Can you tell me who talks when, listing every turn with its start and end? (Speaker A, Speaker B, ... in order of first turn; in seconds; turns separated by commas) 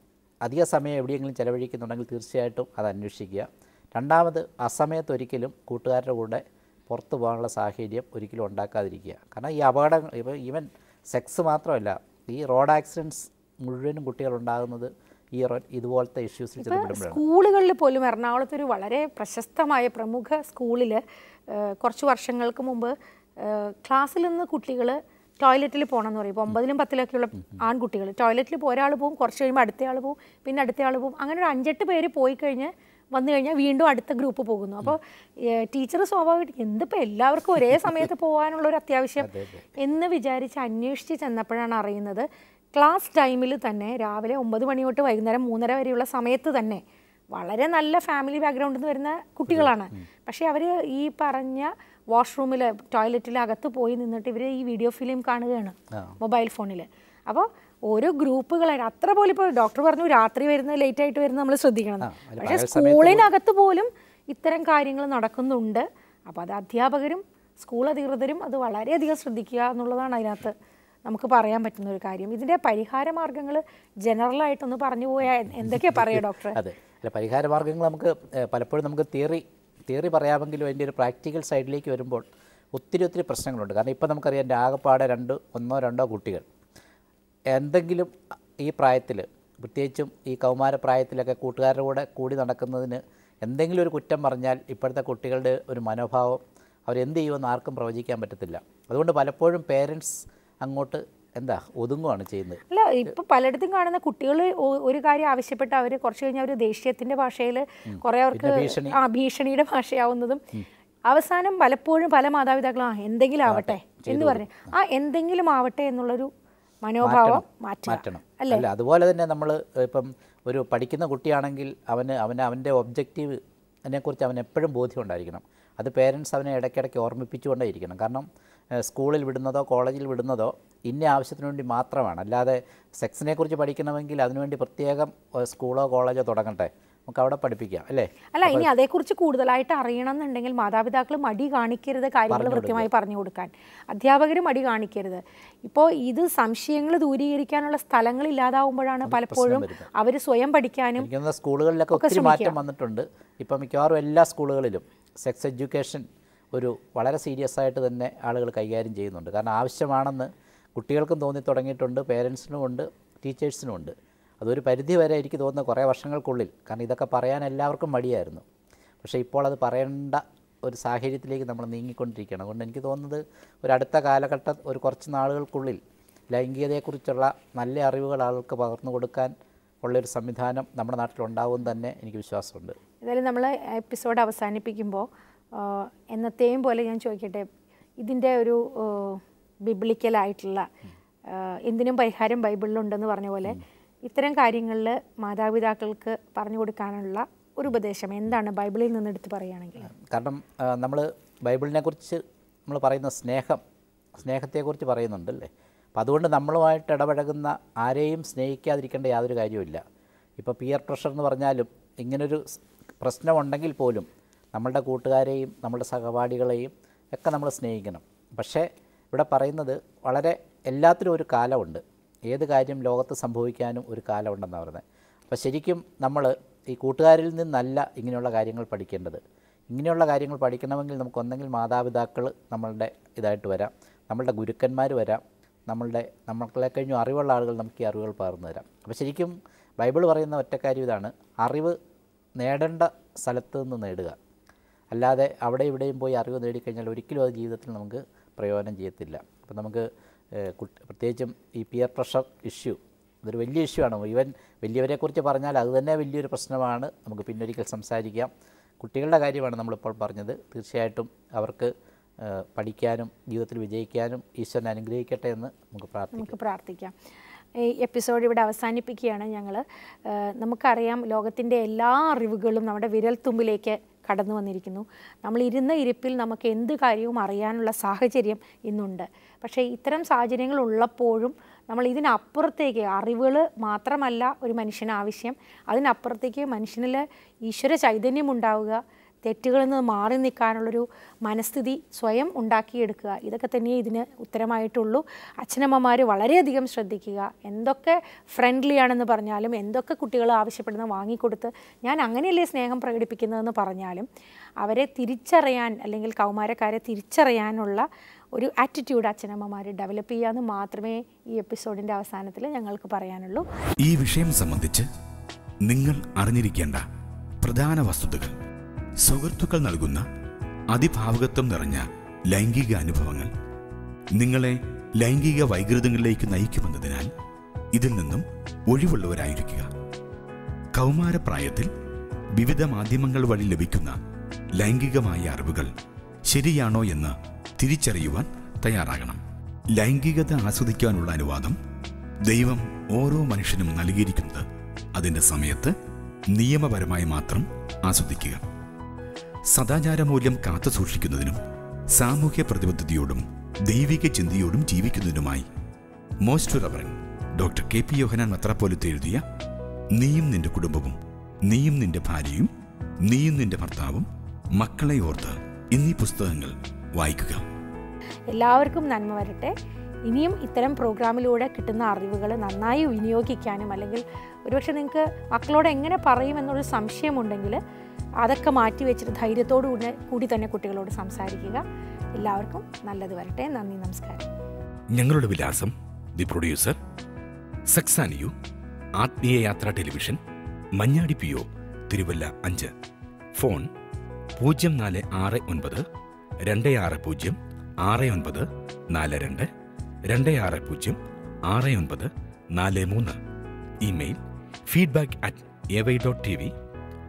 Speaker A: 0.5-17.2, Speaker B: 16.6-46.8, Speaker A: 39.2-39.7, Speaker B: 47.3-70.5, Speaker A: 49.5-50.0, Speaker A: 62.0-63.3, Speaker B: 71.1-76.6, Speaker A: 75.7-86.5, Speaker A: 87.5-102.6, Speaker B: 102.7-110.4, Speaker A: 107.9-109.0, Speaker B: 111.1-116.3, Speaker A: 113.5-114.7, Speaker B: 116.8-118.7, Speaker A: 117.0-138.7, Speaker B: 138.3-151.1, Speaker A: 142.3-142.9, Speaker A: 149.1-149.9, Speaker A: 151.0-168.4, Speaker B: 151.9-152.6, Speaker A: 169.0-175.8, Speaker A: 176.3-182.8, Speaker B: 183.0-187.5, Speaker B: 188.0-190.7, Speaker B: 191.3-199.9, Speaker A: 199.9-203.6, Speaker A: 204.2-209.8, Speaker A: 210.4-241.8, Speaker A: 242.4-244.2, Speaker A: 244.9-266.4, Speaker B: 266.1-266.9, Speaker B: 267.6-304.1, Speaker B: 304.6-313.5, Speaker C: 313.8-314.9, Speaker C: 315.6-316.8, Speaker C: 317.4-318.4, Speaker C: 319.0-320.0, Speaker C: 320.7-323.3, Speaker C: 324.2-327.1, Speaker C: 327.7-329.7, Speaker C: 330.8-331.7, Speaker C: 332.4-334.0, Speaker C: 334.6-335.7, Speaker C: 336.3-339.2, Speaker C: 339.7-341.6, Speaker C: 342.3-345.7, Speaker C: 346.3-348.4, Speaker C: 349.5-351.4, Speaker C: 351.9-355.5, Speaker C: 356.2-359.2, Speaker C: 359.9-362.5, Speaker C: 363.1-367.4, Speaker B: 368.3-369.5, Speaker B: 370.1-377.6, Speaker B: 378.2-381.6, Speaker B: 382.2-384.3, Speaker C: 384.9-386.8, Speaker C: 387.7-388.3, Speaker C: 389.0-390.2, Speaker C: 390.8-392.7, Speaker C: 393.4-393.7, Speaker C: 394.4-395.9, Speaker C: 396.4-399.5, Speaker C: 400.1-403.2, Speaker C: 403.9-406.5